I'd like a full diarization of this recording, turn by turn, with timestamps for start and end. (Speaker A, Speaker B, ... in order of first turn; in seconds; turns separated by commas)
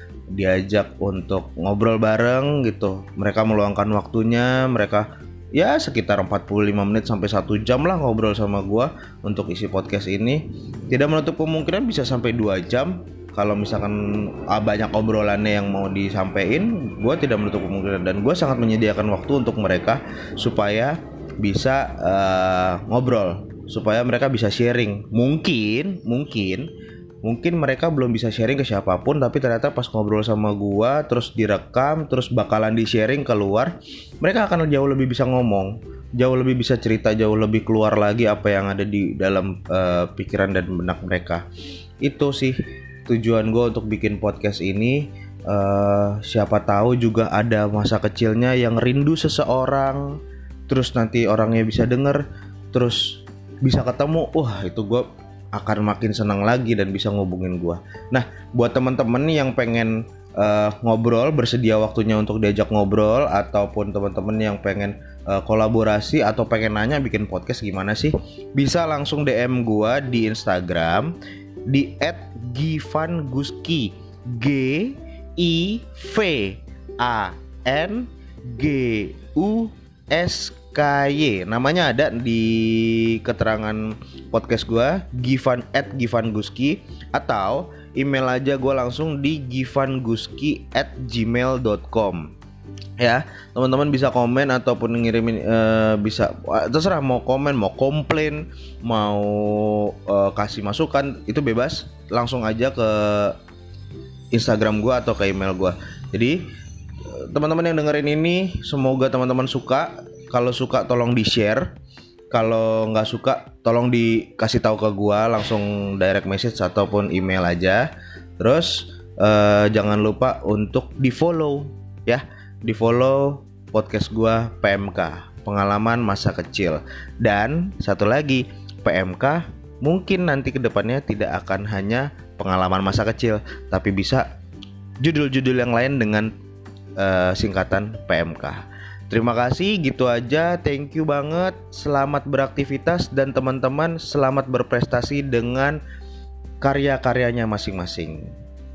Speaker A: 0.3-26.7, Speaker A: 27.2-41.4, Speaker A: 42.0-42.5, Speaker A: 43.1-71.1, Speaker A: 71.7-92.3, Speaker A: 93.0-103.3, Speaker A: 104.3-106.4, Speaker A: 107.1-111.7, Speaker A: 112.3-134.2, Speaker A: 135.0-136.3, Speaker A: 137.0-145.8, Speaker A: 146.6-148.3